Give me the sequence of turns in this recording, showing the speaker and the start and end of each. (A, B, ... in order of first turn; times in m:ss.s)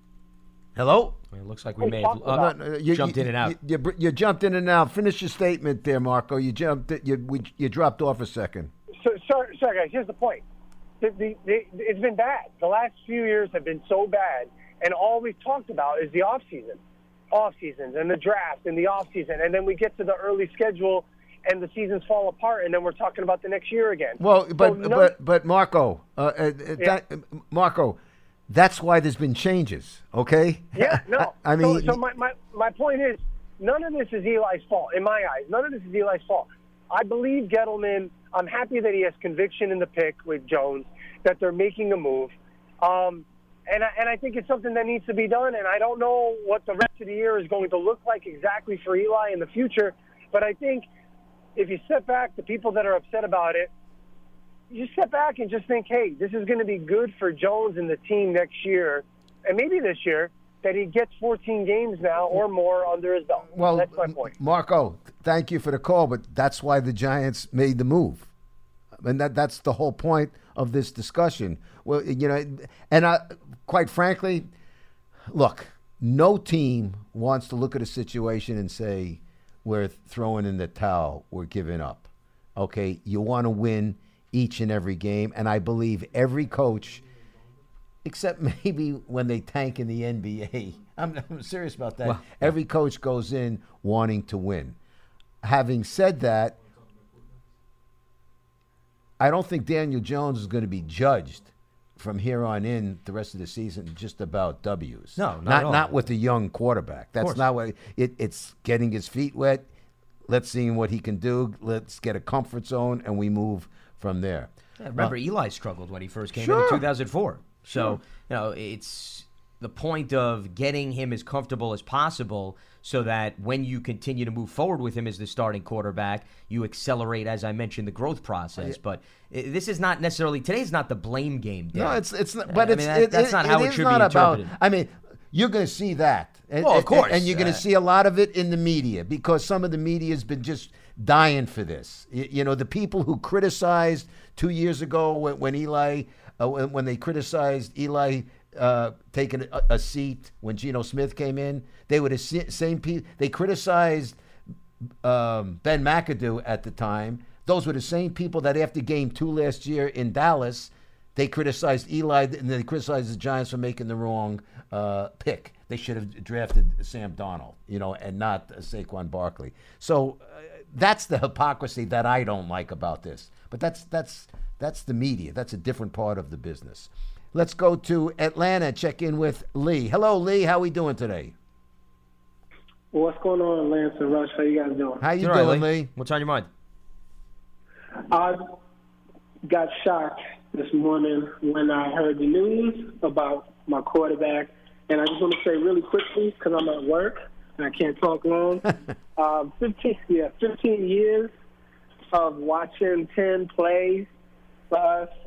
0:00.8-0:01.2 A
0:01.3-0:03.6 B
0:01.8-0:02.5 C
0:02.3-0:08.7 A
0:09.0-0:10.4 C
0:11.0-0:16.8 C
0:17.3-0:25.1 C
0:24.2-0:28.0 A
0:28.5-0:32.0 A
0:30.8-0:50.9 C
0:51.6-0:53.7 C
0:54.7-1:04.3 C
1:03.5-1:08.3 A
1:09.0-1:14.5 A
1:15.3-1:27.0 A
1:28.0-1:34.8 A
1:32.0-1:32.5 B
1:35.4-1:36.6 A
1:39.2-1:49.7 A
1:45.2-1:45.9 B
1:50.3-1:55.1 A
1:54.8-2:14.5 B
1:56.4-1:56.8 A
2:11.7-2:34.2 A
2:16.6-2:17.6 B
2:35.0-3:01.3 A
3:02.9-3:05.0 D
3:05.0-3:05.9 A
3:05.2-3:06.5 B
3:08.1-3:08.5 D
3:09.5-3:21.3 D
3:22.1-3:24.1 D
3:24.7-3:25.1 D